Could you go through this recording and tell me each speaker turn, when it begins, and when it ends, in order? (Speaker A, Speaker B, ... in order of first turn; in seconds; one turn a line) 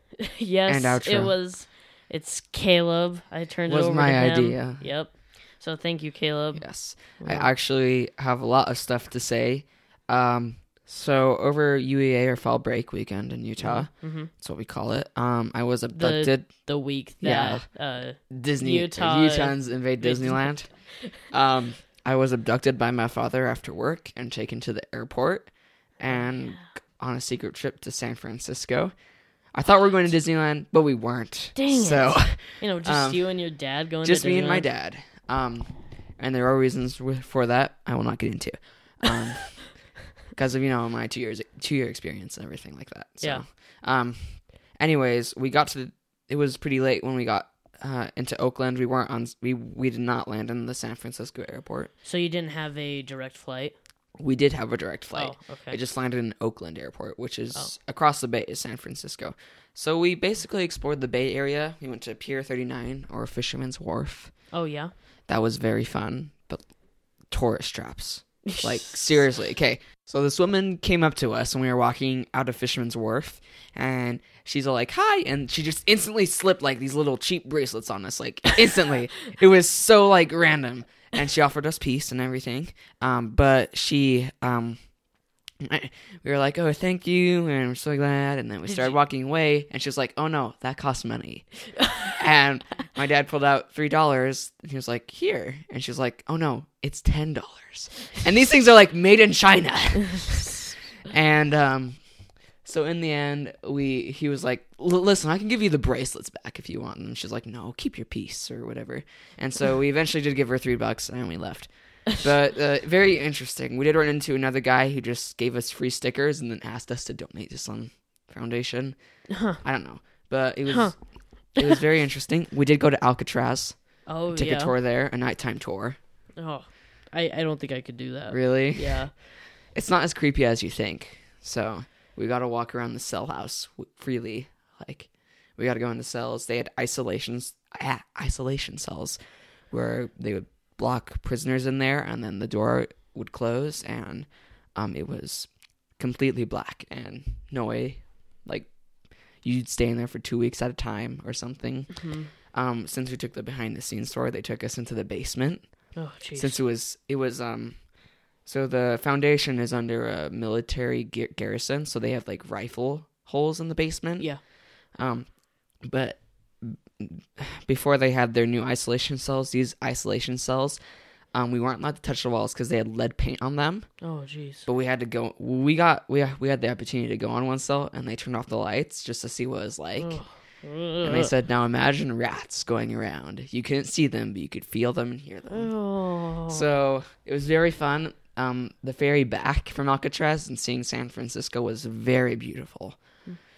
Speaker A: 0.2-7.5
Speaker B: 0.7-1.3
Speaker B: 3.7-4.8
Speaker B: 6.5-16.5
Speaker A: 13.6-14.3
Speaker A: 15.9-21.1
Speaker B: 17.2-17.6
Speaker B: 18.3-20.7
Speaker B: 21.2-28.9
Speaker B: 29.5-33.2
Speaker A: 31.6-34.7
Speaker B: 34.0-39.6
Speaker B: 40.3-51.9
Speaker A: 52.0-53.7
Speaker B: 54.2-64.3
Speaker A: 55.1-55.8
Speaker A: 64.5-64.9
Speaker B: 65.3-66.6
Speaker B: 67.3-84.8
Speaker A: 68.5-68.9
Speaker B: 85.6-91.5
Speaker A: 88.7-88.9
Speaker B: 92.0-100.6
Speaker B: 101.1-102.0
Speaker B: 102.6-119.0
Speaker A: 119.3-119.6
Speaker B: 119.6-120.9
Speaker A: 120.7-120.9
Speaker B: 121.6-123.8
Speaker A: 124.1-124.7
Speaker B: 124.3-126.0
Speaker A: 126.4-129.1
Speaker B: 128.3-129.0
Speaker B: 129.7-139.2
Speaker B: 139.7-148.7
Speaker B: 149.4-151.9
Speaker A: 152.0-152.3
Speaker B: 152.5-155.6
Speaker A: 155.9-156.6
Speaker B: 156.3-157.8
Speaker B: 158.4-164.3
Speaker B: 165.0-165.3
Speaker B: 165.8-170.8
Speaker B: 171.3-173.9
Speaker A: 174.0-174.7
Speaker B: 174.7-180.2
Speaker A: 180.0-181.3
Speaker B: 181.0-185.7
Speaker A: 185.5-186.7
Speaker B: 186.5-193.0